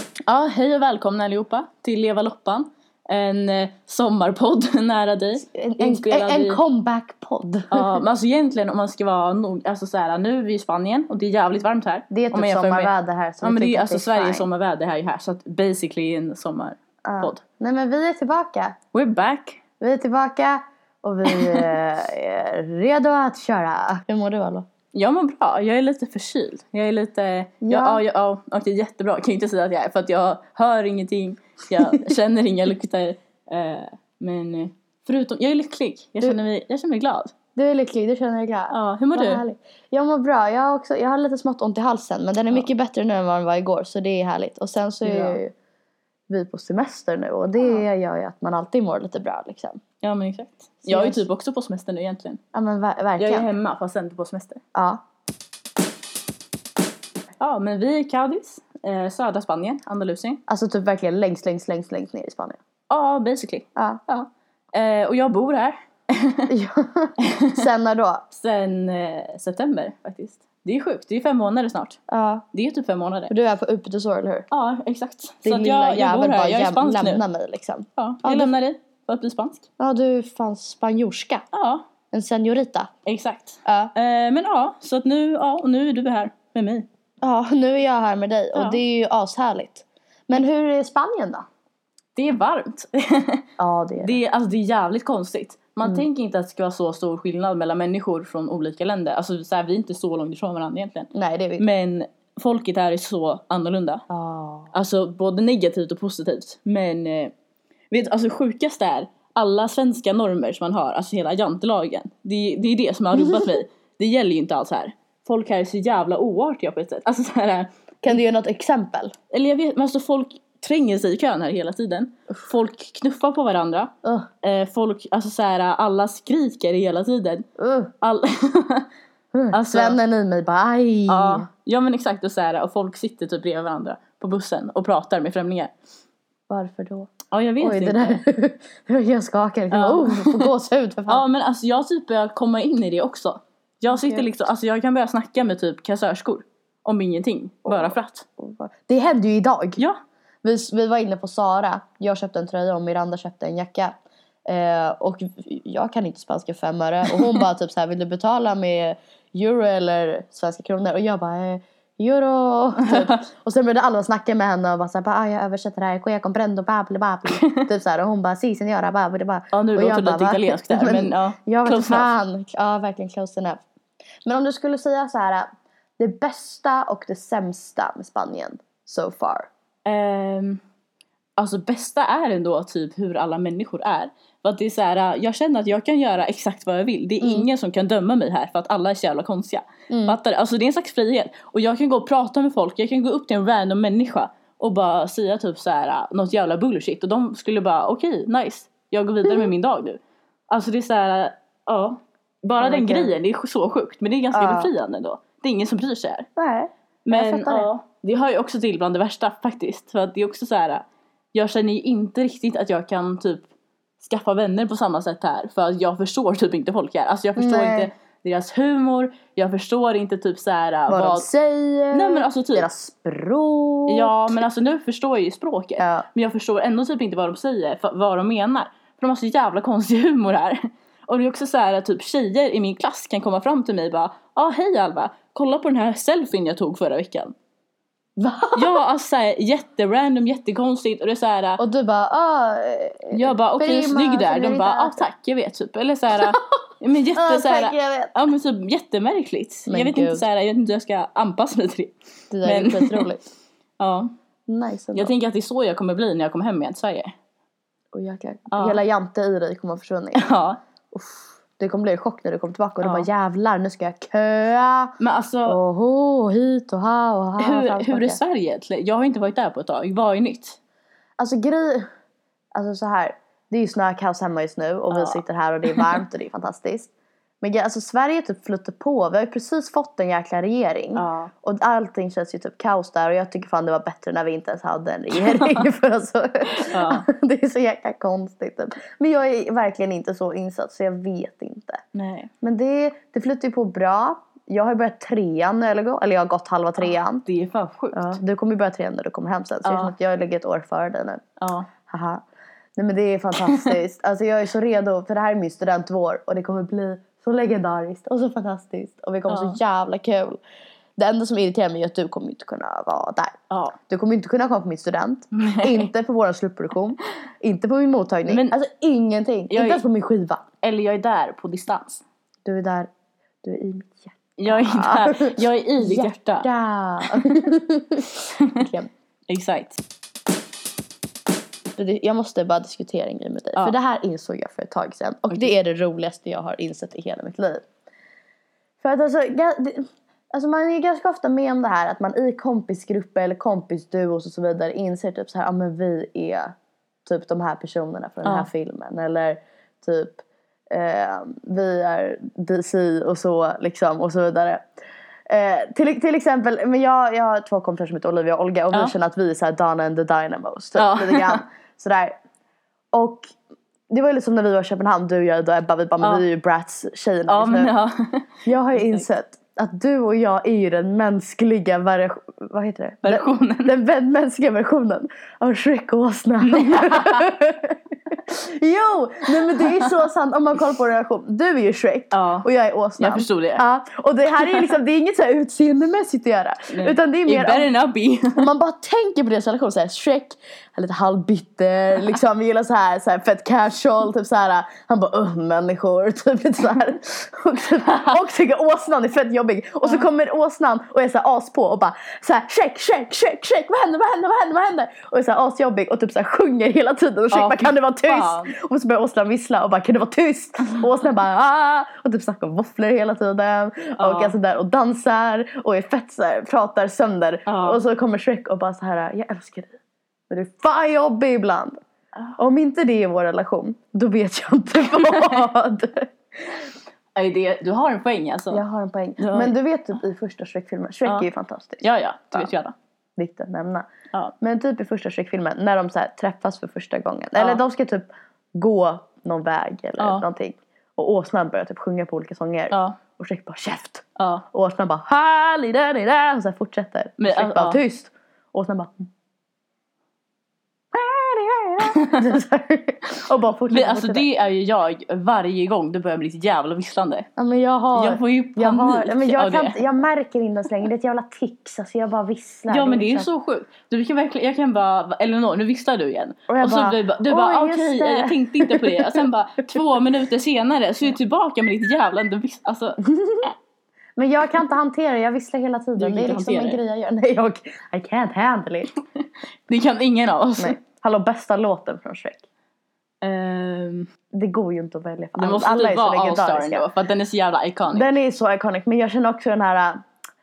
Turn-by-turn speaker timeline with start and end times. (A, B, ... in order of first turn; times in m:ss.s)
0:00.3-0:06.6 A
0:05.4-0:07.9 B
0:07.7-0:17.4 A
0:12.1-0:14.5 B
0:17.0-0:18.8 B
0:18.9-0:19.6 A
0:19.8-0:24.7 B
0:21.2-0:21.6 A
0:24.9-0:37.3 A
0:27.6-0:28.0 B
0:37.6-0:45.5 B
0:38.7-0:39.4 A
0:45.0-0:45.4 A
0:46.3-0:49.8 B
0:47.6-0:47.8 A
0:50.0-0:52.4 A
0:50.8-0:51.2 B
0:52.5-0:53.5 B
0:53.2-0:54.6 A
0:54.7-0:55.0 B
0:57.4-1:00.4 A
1:00.5-1:02.6 B
1:02.9-1:06.5 A
1:03.8-1:04.0 B
1:06.5-1:08.2 B
1:07.2-1:07.7 A
1:08.3-1:12.0 A
1:12.1-1:12.4 B
1:12.5-1:13.3 A
1:13.3-1:14.5 B
1:14.5-1:17.2 A
1:15.4-1:18.5 B
1:18.0-1:19.7 A
1:19.8-1:21.4 B
1:21.5-1:21.8 A
1:22.1-1:22.9 B
1:23.0-1:26.9 A
1:23.6-1:23.9 B
1:27.2-1:31.4 B
1:28.6-1:28.8 A
1:32.2-1:33.4 A
1:33.6-1:34.2 B
1:34.0-1:44.0 A
1:41.1-1:41.6 B
1:44.1-1:44.7 B
1:44.7-1:47.3 A
1:47.9-1:58.2 A
1:58.0-1:59.1 B
1:59.3-2:07.5 A
2:04.0-2:04.3 B
2:07.6-2:07.9 B
2:08.0-2:08.9 A
2:09.3-2:11.5 B
2:09.5-2:10.0 A
2:11.1-2:15.7 A
2:16.5-2:21.2 B
2:17.3-2:18.2 A
2:19.7-2:20.5 A
2:21.1-2:28.3 A
2:24.0-2:24.2 B
2:27.7-2:29.8 B
2:30.4-2:34.0 B
2:34.5-2:53.6 B
2:42.8-2:43.2 A
2:47.3-2:47.7 A
2:49.5-2:52.1 A
2:54.2-2:59.5 B
2:59.8-3:00.6 A
3:01.4-3:26.3 A
3:09.9-3:10.2 B
3:22.6-3:23.1 B
3:24.3-3:24.7 B
3:26.4-3:27.7 B
3:27.1-3:33.5 A
3:34.0-3:41.3 A
3:37.4-3:37.9 B
3:40.9-3:44.4 B
3:41.9-3:42.7 A
3:43.9-3:57.3 A
3:45.8-3:46.0 B
3:58.2-3:58.8 B
3:58.6-4:01.6 A
4:01.6-4:05.0 B
4:03.1-4:13.1 A
4:07.1-4:08.1 B
4:09.7-4:10.2 B
4:12.3-4:13.3 B
4:13.8-4:14.1 A
4:14.5-4:15.1 B
4:14.9-4:17.1 A
4:17.9-4:20.3 B
4:18.5-4:18.8 A
4:20.2-4:20.6 A
4:20.9-4:24.9 B
4:22.8-4:23.1 A
4:25.0-4:25.6 A
4:25.5-4:28.2 B
4:27.4-4:30.6 A
4:31.2-4:31.9 B
4:32.6-4:36.9 B
4:34.9-4:35.2 A
4:37.4-4:51.8 B
4:41.0-4:41.3 A
4:45.3-4:45.6 A
4:46.7-4:47.0 A
4:51.9-4:52.3 A
4:52.4-4:57.3 B
4:56.8-4:58.2 A
4:57.9-5:01.2 B
4:59.6-4:59.9 A
5:01.4-5:01.7 A
5:01.9-5:02.2 B
5:02.8-5:10.4 B
5:09.3-5:09.6 A
5:11.0-5:13.4 B
5:13.5-5:13.8 A
5:13.9-5:20.4 B
5:15.3-5:15.9 A
5:18.3-5:18.6 A
5:19.5-5:19.8 A
5:20.6-5:22.0 A
5:22.5-5:22.9 B
5:23.4-5:28.9 B
5:24.4-5:26.5 A
5:27.1-5:27.4 A
5:28.3-5:28.7 A
5:29.3-5:29.8 A
5:31.8-5:37.6 B
5:38.8-5:46.5 B
5:47.1-5:54.6 B
5:55.3-6:02.2 B
6:00.8-6:01.4 A
6:02.9-6:03.3 B
6:03.9-6:07.7 B
6:07.3-6:09.0 A
6:08.4-6:27.7 B
6:13.0-6:13.7 A
6:16.4-6:17.3 A
6:19.6-6:19.9 A
6:22.1-6:22.5 A
6:23.0-6:23.6 A
6:26.7-6:28.5 A
6:28.4-6:59.8 B
6:37.8-6:38.2 A
6:47.3-6:48.5 A
6:54.0-6:54.3 A
6:57.5-6:57.8 A
7:00.3-7:01.8 B
7:02.4-7:06.6 B
7:05.0-7:05.4 A
7:07.2-7:08.6 A
7:08.5-7:11.8 B
7:09.2-7:09.5 A
7:11.8-7:12.8 A
7:13.2-7:13.9 B
7:14.4-7:29.1 B
7:17.4-7:17.6 A
7:20.0-7:20.3 A
7:22.7-7:23.0 A
7:24.2-7:24.4 A
7:27.2-7:27.8 A
7:30.9-7:34.2 B
7:32.0-7:32.3 A
7:33.7-7:37.3 A
7:37.4-7:43.3 B
7:38.0-7:39.8 A
7:42.7-7:53.0 A
7:46.5-7:49.2 B
7:53.0-7:53.5 B
7:54.2-7:58.9 B
7:56.0-7:56.8 A
7:59.7-8:00.8 A
8:00.6-8:02.4 B
8:03.2-8:04.1 A
8:04.3-8:06.9 B
8:05.4-8:08.1 A
8:07.9-8:10.0 B